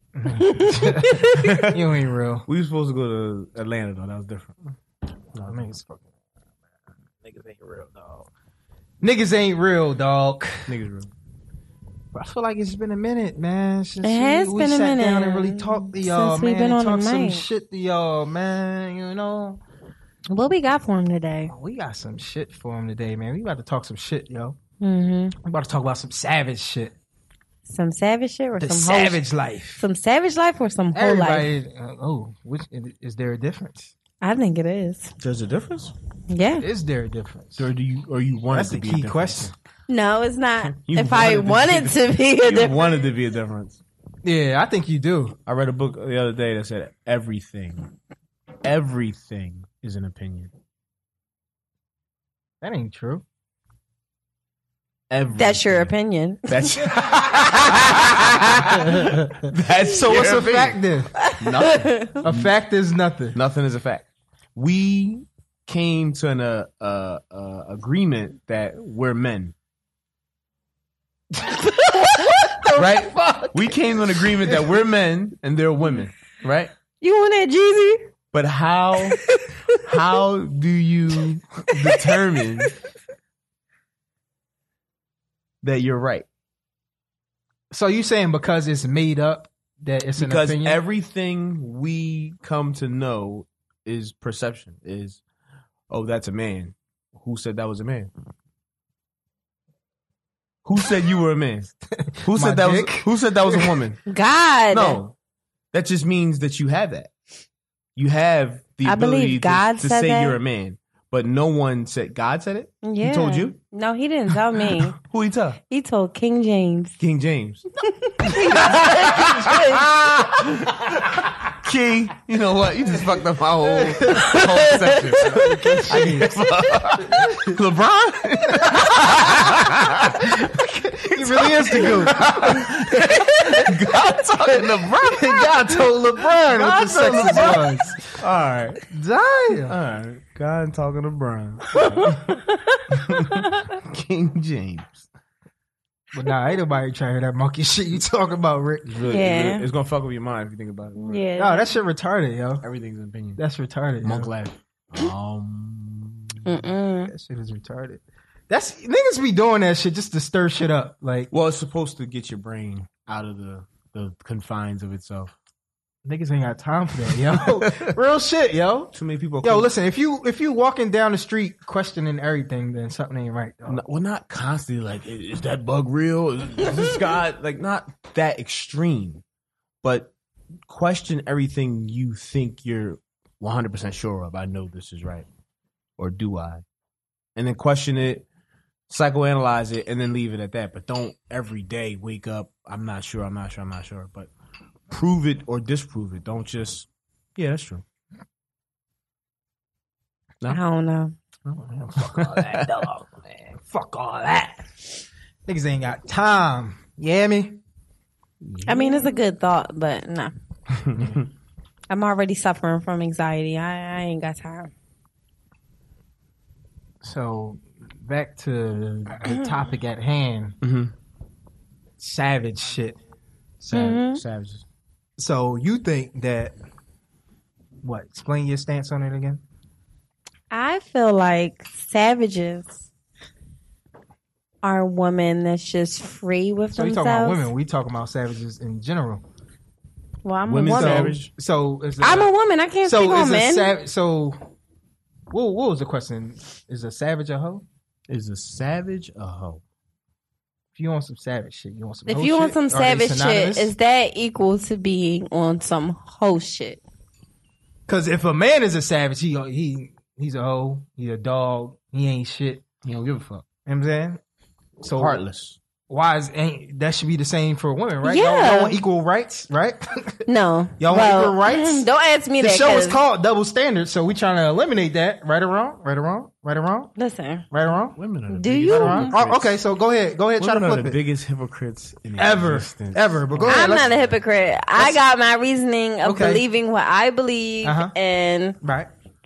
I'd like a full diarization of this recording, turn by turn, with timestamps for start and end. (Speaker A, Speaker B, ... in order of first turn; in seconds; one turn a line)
Speaker A: 0.1-2.5
Speaker B: 0.3-1.6
Speaker C: 1.2-4.7
Speaker C: 5.3-5.6
Speaker A: 5.5-6.0
Speaker C: 7.2-8.3
Speaker A: 9.0-10.8
Speaker C: 10.7-11.1
Speaker A: 12.1-19.6
Speaker B: 14.0-17.4
Speaker B: 20.3-21.5
Speaker A: 21.5-24.6
Speaker B: 24.8-25.3
Speaker A: 25.4-26.9
Speaker B: 27.7-29.2
Speaker A: 28.6-29.9
Speaker B: 29.8-31.5
Speaker A: 30.9-33.9
Speaker B: 34.2-35.1
Speaker C: 35.2-35.9
Speaker B: 36.3-36.7
Speaker A: 36.6-37.7
Speaker C: 37.6-39.5
Speaker A: 38.5-39.5
Speaker B: 39.9-43.0
Speaker C: 40.8-43.8
Speaker A: 44.2-45.4
Speaker C: 45.5-47.9
Speaker C: 48.6-50.5
Speaker A: 52.6-53.2
Speaker C: 55.1-55.9
Speaker B: 55.4-57.9
Speaker C: 56.5-62.5
Speaker A: 56.8-61.1
Speaker B: 61.2-62.2
Speaker A: 62.2-63.4
Speaker C: 63.4-69.5
Speaker A: 71.4-74.6
Speaker B: 71.8-72.6
Speaker C: 72.8-76.7
Speaker B: 77.0-78.0
Speaker C: 78.3-82.8
Speaker B: 79.1-79.8
Speaker B: 81.7-82.1
Speaker C: 85.6-86.3
Speaker A: 87.7-90.8
Speaker C: 90.2-95.2
Speaker C: 95.9-98.1
Speaker C: 100.6-104.0
Speaker A: 102.1-103.8
Speaker B: 104.1-105.0
Speaker C: 104.7-105.1
Speaker C: 105.7-107.1
Speaker C: 108.0-113.6
Speaker B: 108.8-110.4
Speaker B: 112.8-115.0
Speaker C: 114.3-115.6
Speaker B: 115.7-117.0
Speaker C: 117.0-117.7
Speaker B: 117.9-119.8
Speaker C: 118.2-138.9
Speaker A: 118.5-119.6
Speaker A: 124.0-124.4
Speaker B: 124.1-125.8
Speaker A: 125.2-126.3
Speaker A: 127.0-127.5
Speaker A: 128.5-133.8
Speaker A: 134.8-138.2
Speaker A: 138.9-139.8
Speaker C: 139.5-145.1
Speaker A: 141.8-142.2
Speaker B: 142.4-143.8
Speaker A: 146.1-149.0
Speaker C: 148.8-151.2
Speaker B: 149.1-149.7
Speaker B: 151.0-151.7
Speaker A: 151.4-152.7
Speaker C: 152.6-153.4
Speaker A: 153.4-154.3
Speaker C: 154.0-156.6
Speaker B: 156.4-157.1
Speaker A: 157.1-161.3
Speaker C: 161.3-165.3
Speaker A: 166.1-173.8
Speaker C: 167.3-167.9
Speaker C: 168.9-169.7
Speaker C: 173.7-179.2
Speaker C: 179.8-180.1
Speaker C: 180.7-185.3
Speaker C: 186.0-186.6
Speaker C: 187.4-188.2
Speaker C: 188.9-194.3
Speaker C: 194.9-197.8
Speaker B: 200.5-201.2
Speaker A: 201.5-204.8
Speaker C: 202.0-202.9
Speaker A: 205.5-207.6
Speaker C: 208.4-209.0
Speaker B: 208.7-210.3
Speaker C: 210.7-211.3
Speaker A: 210.9-211.2
Speaker B: 211.9-214.7
Speaker A: 217.0-220.6
Speaker C: 220.6-220.9
Speaker A: 222.0-223.0
Speaker A: 223.6-224.0
Speaker B: 223.7-224.2
Speaker C: 223.8-224.7
Speaker A: 225.2-226.5
Speaker A: 227.8-229.4
Speaker B: 230.5-232.8
Speaker B: 234.6-237.5
Speaker A: 236.8-239.2
Speaker B: 240.2-241.2
Speaker C: 240.5-241.3
Speaker A: 240.7-242.3
Speaker B: 242.0-243.7
Speaker A: 242.8-244.4
Speaker A: 245.3-247.7
Speaker C: 248.1-249.6
Speaker A: 250.8-253.7
Speaker B: 252.1-256.8
Speaker A: 257.9-262.6
Speaker C: 262.8-263.4
Speaker A: 263.7-264.2
Speaker A: 264.8-265.2
Speaker C: 265.0-265.6
Speaker A: 265.9-270.2
Speaker B: 268.0-268.8
Speaker B: 270.3-273.0
Speaker A: 270.8-271.9
Speaker A: 272.4-276.9
Speaker B: 277.0-277.5
Speaker A: 277.5-278.0
Speaker C: 278.0-279.5
Speaker B: 278.3-279.1
Speaker A: 278.7-281.0
Speaker C: 280.4-284.2
Speaker A: 282.2-283.9
Speaker B: 283.4-288.6
Speaker A: 286.0-286.4
Speaker A: 287.6-287.9
Speaker A: 288.6-288.9